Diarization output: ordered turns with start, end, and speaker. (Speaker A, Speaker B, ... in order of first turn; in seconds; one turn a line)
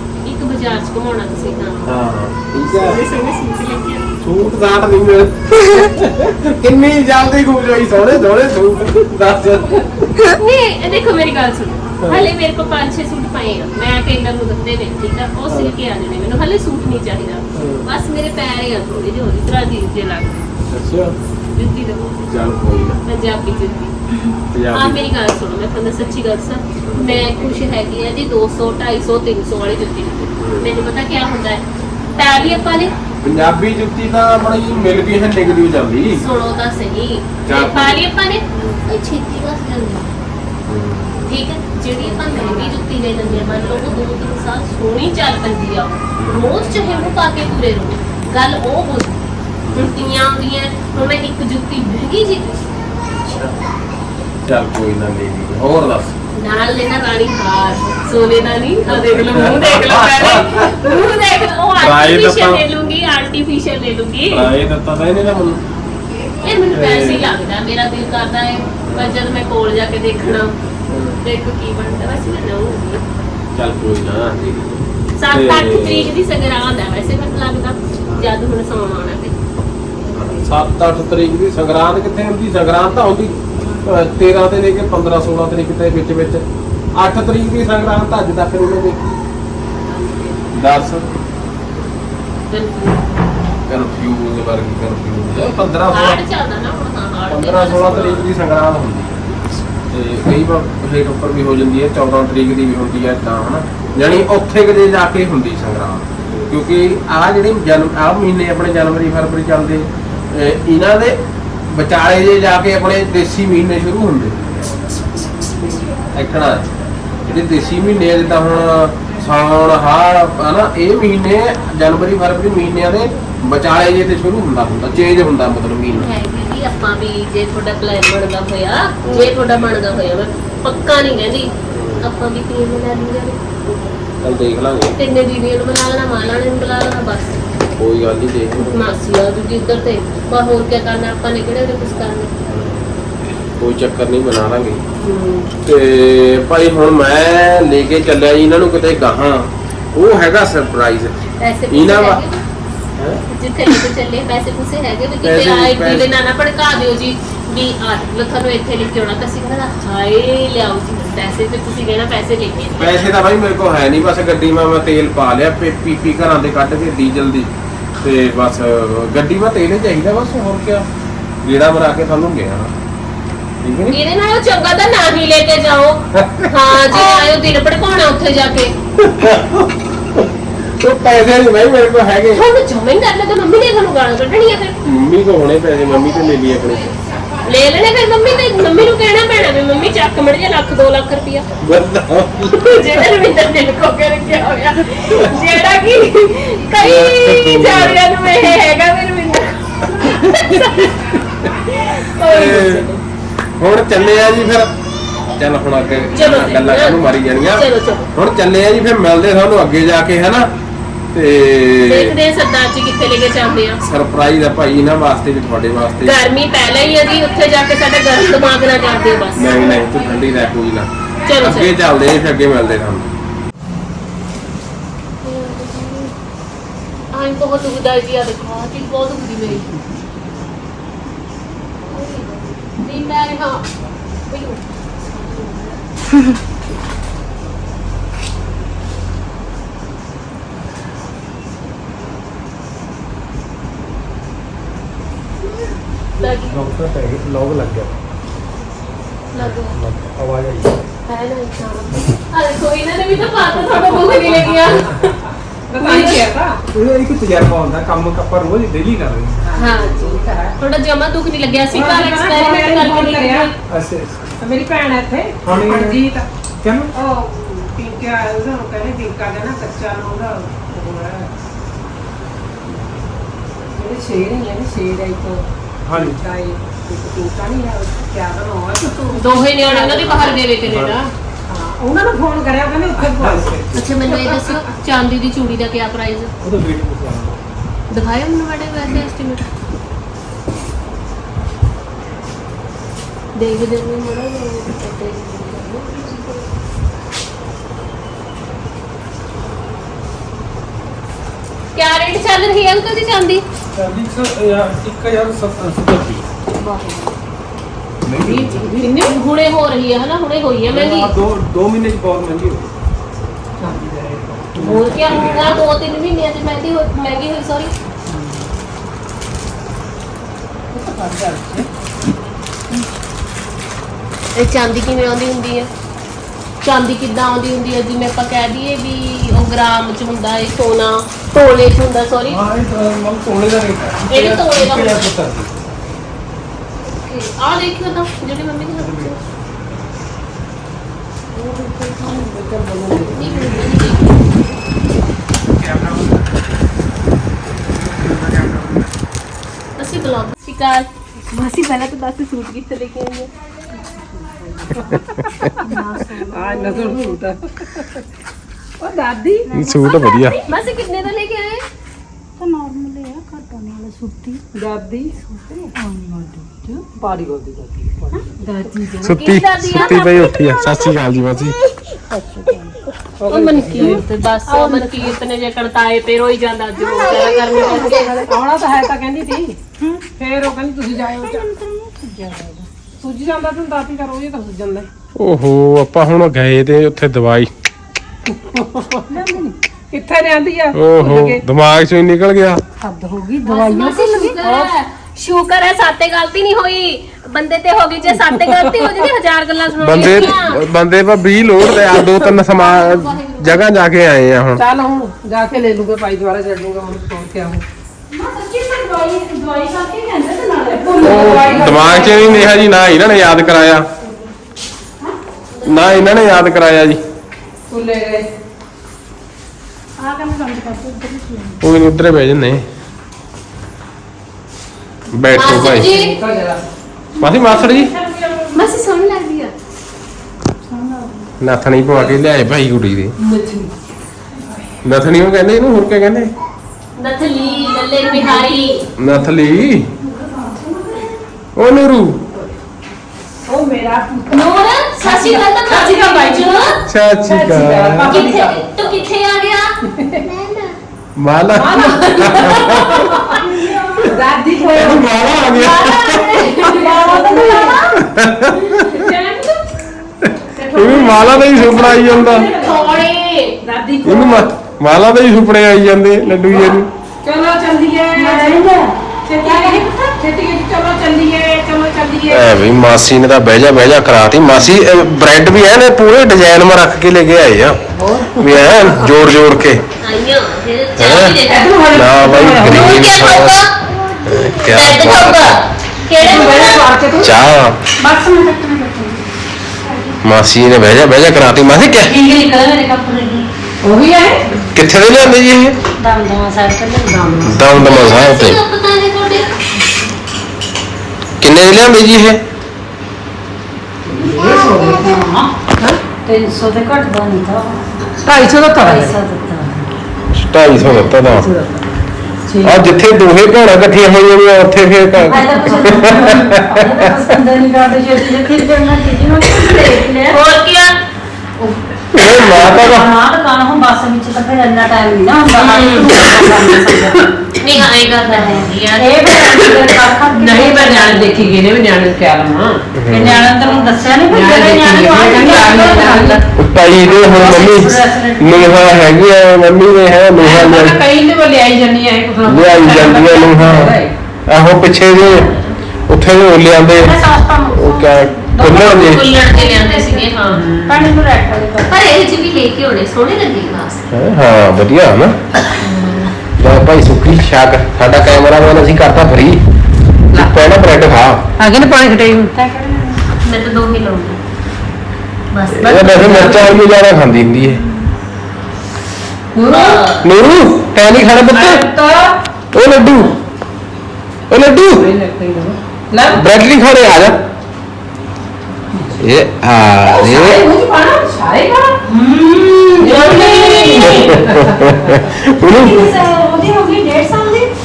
Speaker A: 0.2-2.0
Speaker B: 1.9-3.0
Speaker A: 2.6-4.1
Speaker B: 4.2-10.2
Speaker A: 10.2-20.6
Speaker B: 12.0-12.3
Speaker B: 15.5-15.8
Speaker B: 17.5-17.9
Speaker B: 20.7-21.1
Speaker A: 21.5-22.2
Speaker B: 22.2-23.0
Speaker A: 23.1-24.0
Speaker B: 24.5-25.0
Speaker A: 24.7-31.6
Speaker B: 26.8-27.2
Speaker B: 30.4-30.7
Speaker A: 32.2-33.0
Speaker B: 33.2-36.2
Speaker A: 36.1-40.1
Speaker B: 37.4-38.0
Speaker B: 40.7-41.2
Speaker A: 41.2-49.2
Speaker B: 46.2-46.5
Speaker B: 49.6-49.9
Speaker A: 49.8-52.7
Speaker B: 53.1-53.5
Speaker B: 54.5-56.1
Speaker A: 56.4-64.5
Speaker B: 58.9-60.9
Speaker B: 61.8-62.6
Speaker B: 64.3-65.6
Speaker A: 66.4-70.6
Speaker B: 66.7-67.3
Speaker B: 68.9-69.2
Speaker B: 70.9-71.2
Speaker A: 71.2-73.0
Speaker B: 73.5-76.1
Speaker A: 75.2-79.4
Speaker B: 78.1-78.3
Speaker A: 80.0-80.6
Speaker B: 80.2-86.4
Speaker B: 87.0-89.2
Speaker A: 89.8-91.1
Speaker B: 90.5-91.0
Speaker A: 92.5-93.1
Speaker B: 93.7-96.2
Speaker A: 95.9-98.3
Speaker B: 97.3-99.2
Speaker B: 99.9-111.2
Speaker B: 111.7-114.4
Speaker B: 116.1-116.7
Speaker B: 117.2-126.1
Speaker A: 125.9-131.5
Speaker B: 129.0-129.5
Speaker B: 131.7-132.1
Speaker A: 132.0-133.5
Speaker B: 134.2-134.9
Speaker A: 134.9-137.4
Speaker B: 137.8-138.8
Speaker A: 138.6-142.3
Speaker B: 142.5-143.0
Speaker B: 143.6-144.8
Speaker A: 145.0-145.5
Speaker B: 145.6-152.2
Speaker A: 151.4-152.4
Speaker A: 153.3-163.1
Speaker B: 155.2-156.1
Speaker B: 162.8-167.5
Speaker B: 168.0-170.8
Speaker B: 171.4-172.7
Speaker B: 173.6-174.0
Speaker A: 173.9-178.7
Speaker B: 176.2-177.3
Speaker B: 179.0-180.3
Speaker B: 180.8-182.4
Speaker A: 182.3-184.8
Speaker B: 184.8-186.9
Speaker A: 187.4-191.5
Speaker B: 191.6-193.0
Speaker A: 192.5-203.0
Speaker B: 196.8-198.0
Speaker B: 200.0-200.8
Speaker B: 202.2-202.9
Speaker B: 203.6-204.7
Speaker B: 205.3-210.5
Speaker A: 206.1-208.1
Speaker B: 211.1-212.2
Speaker A: 211.8-213.8
Speaker B: 213.8-216.2
Speaker A: 216.0-219.8
Speaker B: 219.3-223.1
Speaker A: 221.2-221.7
Speaker A: 225.2-226.1
Speaker A: 227.1-229.8
Speaker A: 231.8-233.7
Speaker A: 234.3-235.8
Speaker A: 246.2-246.7
Speaker C: 246.4-247.9
Speaker A: 249.3-249.8
Speaker C: 249.7-250.8
Speaker A: 251.1-255.2
Speaker D: 253.8-254.4
Speaker D: 255.7-256.6
Speaker A: 255.8-256.2
Speaker C: 256.7-259.4
Speaker D: 259.4-260.6
Speaker A: 259.6-263.6
Speaker D: 261.7-263.5
Speaker C: 263.7-264.3
Speaker D: 264.4-266.3
Speaker C: 265.4-266.0
Speaker C: 266.6-266.9
Speaker D: 266.9-271.3
Speaker D: 273.7-280.4
Speaker C: 275.9-276.2
Speaker A: 279.1-281.1
Speaker C: 280.6-281.0
Speaker D: 281.5-284.5
Speaker C: 283.2-283.7
Speaker A: 283.7-286.3
Speaker C: 286.4-287.4
Speaker A: 287.9-289.5
Speaker A: 293.4-296.5
Speaker A: 301.8-303.4
Speaker C: 303.7-306.2
Speaker A: 306.6-307.1
Speaker C: 308.1-308.7
Speaker D: 308.2-309.1
Speaker A: 308.6-311.1
Speaker C: 310.7-312.7
Speaker C: 313.7-315.6
Speaker A: 314.6-317.7
Speaker D: 318.1-318.4
Speaker D: 320.7-321.7
Speaker A: 324.4-325.7
Speaker A: 326.6-332.4
Speaker C: 332.3-335.5
Speaker A: 334.1-335.1
Speaker A: 336.9-339.2
Speaker C: 338.8-339.1
Speaker D: 341.3-343.7
Speaker A: 343.1-344.3
Speaker C: 345.6-346.2
Speaker C: 347.8-348.8
Speaker A: 349.8-353.3
Speaker D: 353.9-355.7
Speaker A: 355.4-357.2
Speaker E: 355.7-356.9
Speaker D: 356.3-358.1
Speaker D: 358.8-359.6
Speaker E: 359.5-360.3
Speaker B: 359.5-360.5
Speaker A: 360.3-361.6
Speaker E: 362.4-364.4
Speaker D: 364.5-365.8
Speaker E: 365.8-366.8
Speaker D: 366.5-369.1
Speaker A: 369.0-371.0
Speaker B: 369.0-371.6
Speaker D: 372.1-375.1
Speaker A: 373.3-378.3
Speaker D: 376.8-384.9
Speaker E: 381.1-382.3
Speaker B: 385.2-387.5
Speaker D: 388.3-391.4
Speaker E: 389.1-389.5
Speaker B: 390.7-392.6
Speaker E: 392.8-394.7
Speaker A: 393.5-400.6
Speaker D: 398.4-399.0
Speaker B: 399.8-404.6
Speaker A: 402.2-403.9
Speaker D: 404.6-407.6
Speaker E: 408.1-411.5
Speaker D: 410.6-412.6
Speaker B: 411.0-413.9
Speaker A: 415.5-416.4
Speaker B: 415.7-417.0
Speaker D: 417.7-418.3
Speaker E: 420.0-421.6
Speaker B: 421.6-422.6
Speaker B: 425.1-425.9
Speaker A: 425.3-426.2
Speaker D: 425.6-426.6
Speaker B: 427.2-427.9
Speaker D: 427.4-428.6
Speaker A: 428.5-429.5
Speaker B: 431.4-433.1
Speaker D: 433.2-433.7
Speaker B: 434.8-436.3
Speaker A: 437.0-438.9
Speaker D: 437.5-438.5
Speaker B: 439.0-439.9
Speaker D: 440.0-441.2
Speaker B: 441.6-442.2
Speaker D: 443.5-448.6
Speaker A: 444.3-446.8
Speaker B: 446.9-448.1
Speaker C: 447.1-448.1
Speaker A: 448.1-450.8
Speaker D: 449.9-450.2
Speaker B: 451.2-453.2
Speaker D: 451.5-455.1
Speaker A: 452.3-453.4
Speaker B: 454.7-456.3
Speaker A: 455.3-458.0
Speaker D: 456.5-457.6
Speaker E: 457.0-457.8
Speaker B: 458.0-458.9
Speaker D: 458.5-459.6
Speaker D: 460.5-463.1
Speaker B: 460.7-462.5
Speaker A: 462.6-463.6
Speaker D: 463.6-464.5
Speaker B: 464.0-466.9
Speaker D: 466.5-468.6
Speaker E: 468.1-469.8
Speaker D: 469.2-472.5
Speaker B: 472.3-477.8
Speaker D: 477.9-479.1
Speaker B: 478.4-479.8
Speaker A: 480.0-481.8
Speaker B: 481.0-481.4
Speaker D: 481.4-483.0
Speaker B: 481.9-483.7
Speaker A: 482.6-486.9
Speaker B: 484.2-485.6
Speaker D: 486.2-487.3
Speaker B: 487.2-487.8
Speaker E: 488.0-489.2
Speaker B: 490.2-492.1
Speaker E: 492.0-493.5
Speaker D: 493.8-494.5
Speaker B: 494.7-495.8
Speaker E: 496.0-497.4
Speaker D: 497.1-497.7
Speaker B: 497.4-498.6
Speaker A: 497.7-499.6
Speaker B: 501.4-502.4
Speaker D: 504.1-506.0
Speaker E: 504.1-505.5
Speaker E: 506.2-507.9
Speaker D: 508.2-509.2
Speaker E: 508.8-509.9
Speaker B: 510.3-511.5
Speaker D: 510.8-511.9
Speaker D: 512.5-512.9
Speaker B: 512.6-517.2
Speaker E: 515.2-520.4
Speaker A: 520.3-521.0
Speaker B: 522.1-523.1
Speaker E: 522.4-527.3
Speaker A: 525.5-526.2
Speaker A: 527.6-531.5
Speaker E: 528.2-531.2
Speaker D: 530.5-533.0
Speaker B: 533.0-533.5
Speaker E: 533.1-536.4
Speaker D: 533.6-536.4
Speaker B: 536.5-541.0
Speaker E: 537.0-539.1
Speaker D: 540.4-544.1
Speaker B: 542.4-545.5
Speaker A: 545.1-545.8
Speaker B: 546.1-547.2
Speaker E: 546.9-552.0
Speaker B: 547.7-549.2
Speaker A: 548.7-550.7
Speaker D: 550.5-551.1
Speaker A: 551.9-554.0
Speaker B: 554.1-555.4
Speaker B: 556.6-559.6
Speaker B: 560.3-561.4
Speaker D: 561.6-562.7
Speaker E: 562.5-563.2
Speaker A: 563.4-564.4
Speaker A: 565.5-566.7
Speaker B: 565.7-567.8
Speaker D: 566.0-566.6
Speaker D: 569.5-570.0
Speaker A: 569.7-570.3
Speaker B: 570.2-571.9
Speaker D: 571.5-572.4
Speaker B: 572.7-573.4
Speaker B: 574.5-575.1
Speaker D: 575.0-576.5
Speaker B: 576.3-577.4
Speaker D: 578.9-579.2
Speaker B: 579.2-580.7
Speaker D: 580.0-582.0
Speaker A: 582.1-584.5
Speaker D: 583.0-585.3
Speaker B: 583.9-586.1
Speaker E: 585.6-587.7